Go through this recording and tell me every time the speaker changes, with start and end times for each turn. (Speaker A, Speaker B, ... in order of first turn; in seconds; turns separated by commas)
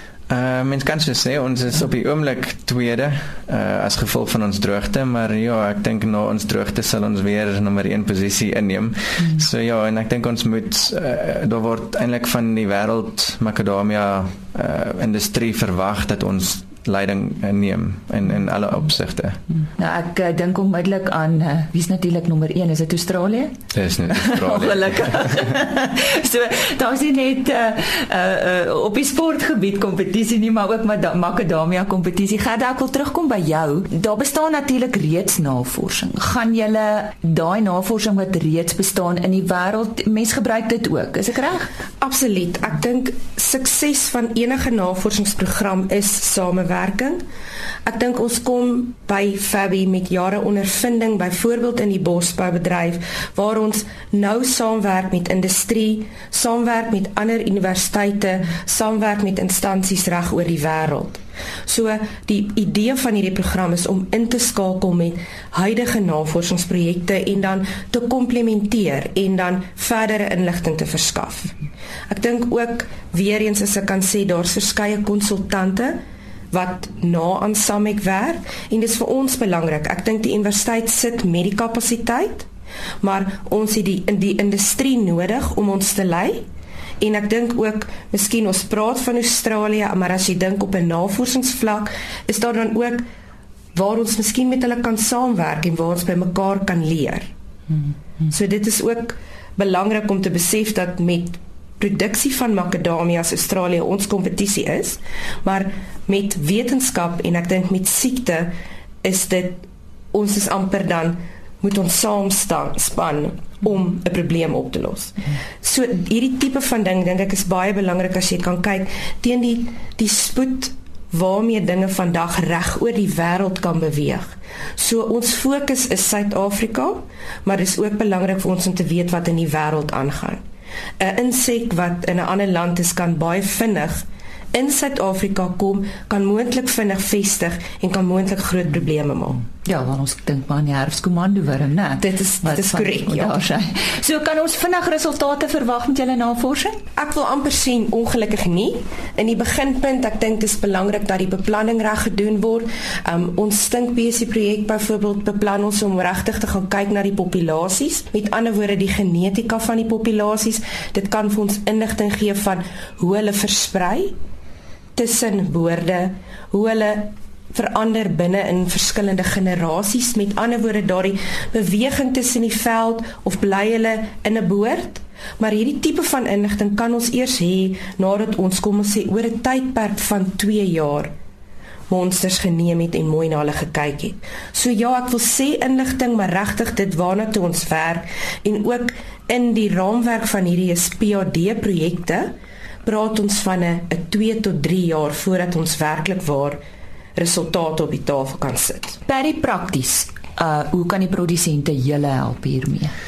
Speaker A: 0.3-19.4, Speaker B: 19.8-23.6, Speaker A: 23.7-25.5, Speaker B: 24.1-41.7, Speaker C: 42.0-47.2, Speaker C: 47.9-76.0, Speaker C: 76.5-82.5, Speaker C: 83.0-86.5, Speaker C: 87.0-93.0, Speaker C: 93.7-97.3, Speaker C: 98.3-130.4, Speaker C: 131.0-139.4, Speaker B: 139.6-146.8, Speaker C: 142.0-143.4, Speaker C: 147.0-164.2, Speaker C: 165.0-181.1, Speaker C: 181.9-192.3, Speaker C: 192.8-196.6, Speaker C: 197.2-199.0, Speaker B: 199.1-203.0